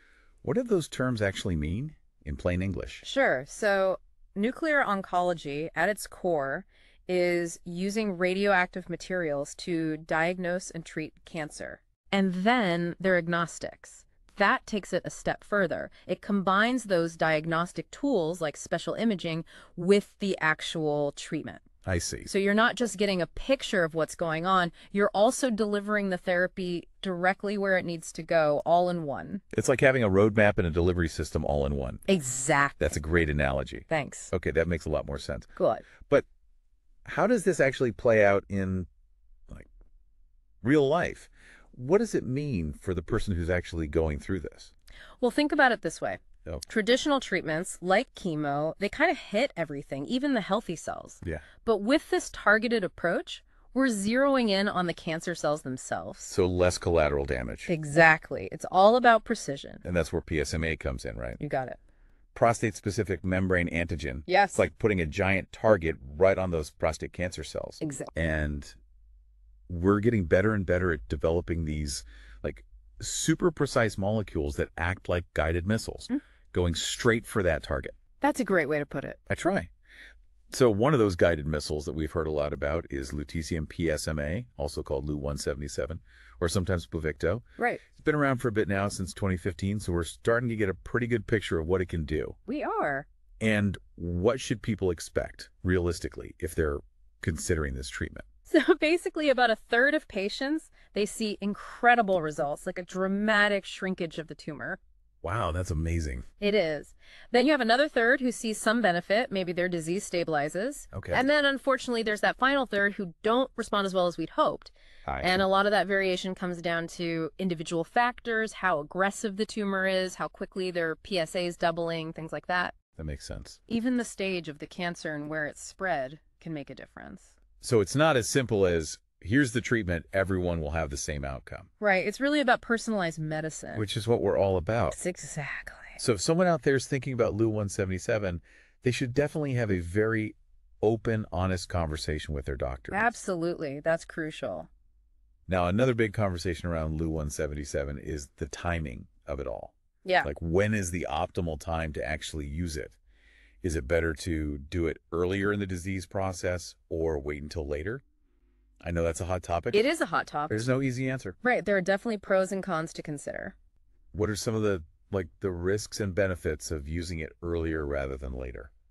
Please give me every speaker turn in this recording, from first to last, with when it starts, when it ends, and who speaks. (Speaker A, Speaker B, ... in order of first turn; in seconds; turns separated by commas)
Speaker A: 0.4-3.0, Speaker B: 3.0-21.6, Speaker A: 21.8-22.3, Speaker B: 22.2-29.4, Speaker A: 29.5-32.0, Speaker B: 32.1-32.9, Speaker A: 32.8-35.5, Speaker B: 33.9-34.3, Speaker B: 35.5-35.9, Speaker A: 37.0-38.9, Speaker A: 40.6-44.7, Speaker B: 45.2-56.3, Speaker A: 56.2-57.7, Speaker B: 57.7-59.8, Speaker A: 59.8-61.4, Speaker B: 61.4-61.8, Speaker A: 62.3-68.8, Speaker B: 64.3-64.7, Speaker B: 67.8-68.1, Speaker A: 69.7-78.0, Speaker B: 78.2-79.2, Speaker A: 79.3-79.7, Speaker A: 80.5-87.4, Speaker A: 88.0-92.4, Speaker B: 92.5-93.1, Speaker A: 93.4-98.2, Speaker B: 98.5-104.8, Speaker A: 105.2-106.2, Speaker B: 106.4-122.8, Speaker A: 110.9-111.2, Speaker A: 115.0-115.4, Speaker A: 123.0-123.6, Speaker B: 123.7-127.3, Speaker A: 127.6-131.7, Speaker B: 131.8-133.8, Speaker A: 133.7-135.0, Speaker B: 134.9-136.0, Speaker A: 136.0-143.1, Speaker B: 142.9-144.7, Speaker A: 145.5-152.9, Speaker B: 150.0-150.3, Speaker A: 153.6-158.0, Speaker A: 158.8-159.9, Speaker B: 159.7-160.7, Speaker A: 160.5-161.4, Speaker B: 161.4-163.5, Speaker A: 164.1-168.7